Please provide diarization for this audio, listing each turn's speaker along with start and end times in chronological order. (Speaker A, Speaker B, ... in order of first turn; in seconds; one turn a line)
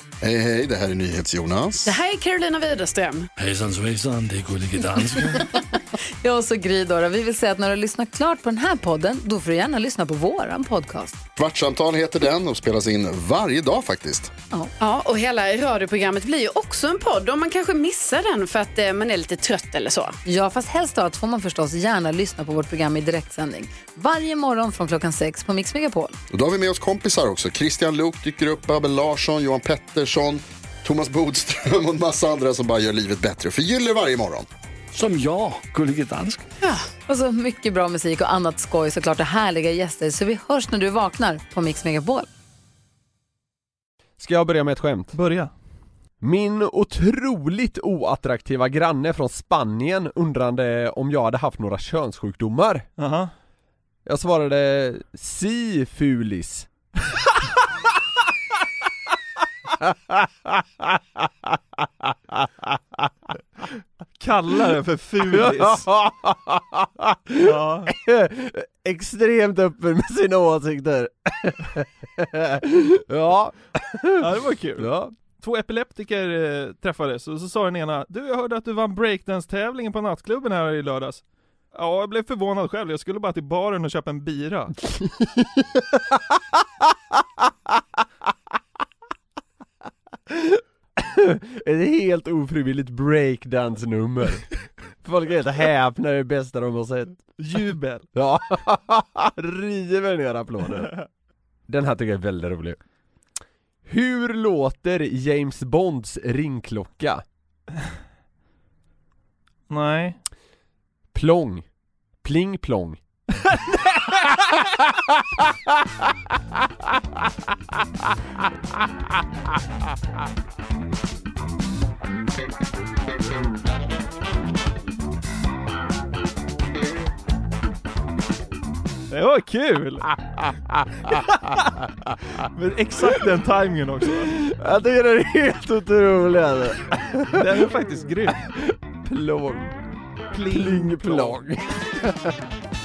Speaker A: 0.2-2.0
Speaker B: 1.9-3.3
Speaker C: 3.4-5.4
Speaker D: 6.2-11.2
Speaker A: 11.4-14.3
Speaker B: 14.8-20.2
Speaker D: 20.2-26.2
Speaker A: 26.3-34.5
Speaker C: 34.9-36.4
Speaker D: 36.7-42.3
Speaker E: 44.2-45.1
Speaker F: 45.1-45.5
Speaker E: 46.2-52.9
Speaker F: 53.0-53.3
Speaker E: 54.1-56.7
Speaker E: 59.8-63.1
Speaker F: 64.2-65.9
Speaker E: 65.3-75.1
Speaker F: 67.4-67.9
Speaker F: 74.2-81.2
Speaker F: 81.7-84.8
Speaker E: 85.0-86.4
Speaker E: 90.3-94.5
Speaker E: 95.0-97.2
Speaker F: 97.4-98.1
Speaker E: 98.1-100.9
Speaker E: 101.7-102.8
Speaker E: 103.9-107.2
Speaker F: 109.7-110.2
Speaker E: 111.1-111.7
Speaker E: 112.2-113.0
Speaker F: 129.1-130.1
Speaker E: 130.4-132.2
Speaker F: 132.4-134.3
Speaker E: 134.3-137.5
Speaker F: 137.3-138.4
Speaker E: 138.4-139.8
Speaker F: 140.3-141.4
Speaker E: 140.5-142.3